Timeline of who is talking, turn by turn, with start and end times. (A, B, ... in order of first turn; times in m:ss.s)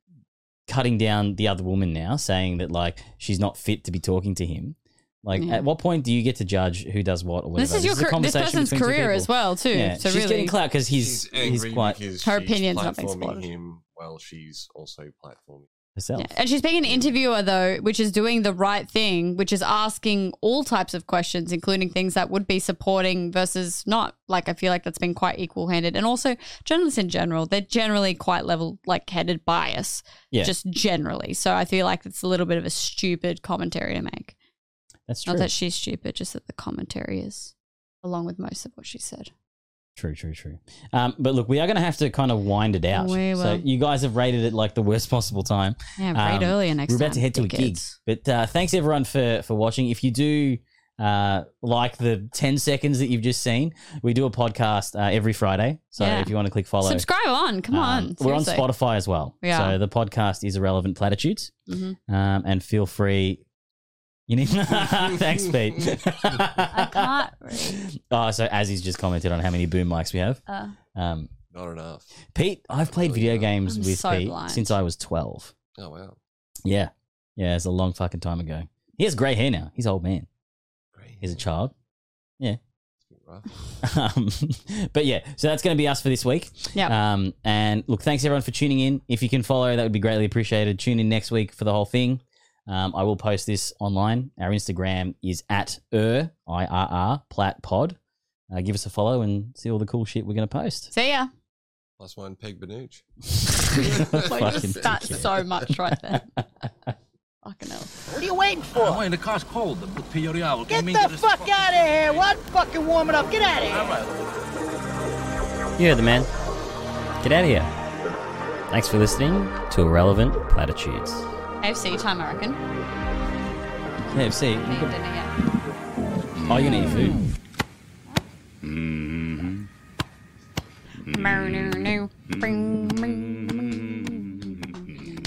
0:00.7-0:12.0 A
0:05.3-0:05.6 B
0:07.6-0:10.5 B
0:10.9-0:15.7 C
0:12.2-0:13.5 B
0:16.0-0:16.3 A
0:16.2-0:34.3 B
0:16.8-0:17.1 C
0:35.1-0:35.5 A
0:35.3-0:39.3 B
0:40.0-0:57.0 A
0:42.9-0:43.6 B
0:46.0-0:47.9 B
0:56.0-0:58.7 B
0:57.7-1:01.5 A
0:59.4-0:59.8 B
1:01.7-1:02.0 B
1:02.1-1:03.4 A
1:04.3-1:10.4 A
1:06.7-1:07.8 B
1:10.5-1:10.7 B
1:10.9-1:11.3 A
1:11.5-1:12.1 C
1:12.3-1:15.5 A
1:12.8-1:13.5 C
1:13.7-1:14.7 B
1:15.8-1:16.2 C
1:16.6-1:20.3 A
1:20.9-1:21.4 C
1:21.2-1:21.7 A
1:23.0-1:23.6 C
1:23.8-1:38.0 A
1:38.5-1:40.9 A
1:40.9-1:41.3 B
1:42.0-1:43.0 C
1:43.6-1:45.2 C
1:43.7-1:45.4 A
1:44.8-1:46.3 B
1:47.4-1:48.0 B
1:48.1-1:49.0 D
1:48.6-1:52.2 E
1:50.7-1:54.0 D
1:53.7-1:54.1 E
1:55.8-1:56.3 A
1:57.2-1:57.7 A
1:58.7-2:01.3 A
2:01.6-2:02.6 B
2:04.1-2:04.9 A
2:04.5-2:05.4 B
2:06.5-2:07.2 A
2:06.5-2:07.1 B
2:11.0-2:14.8 B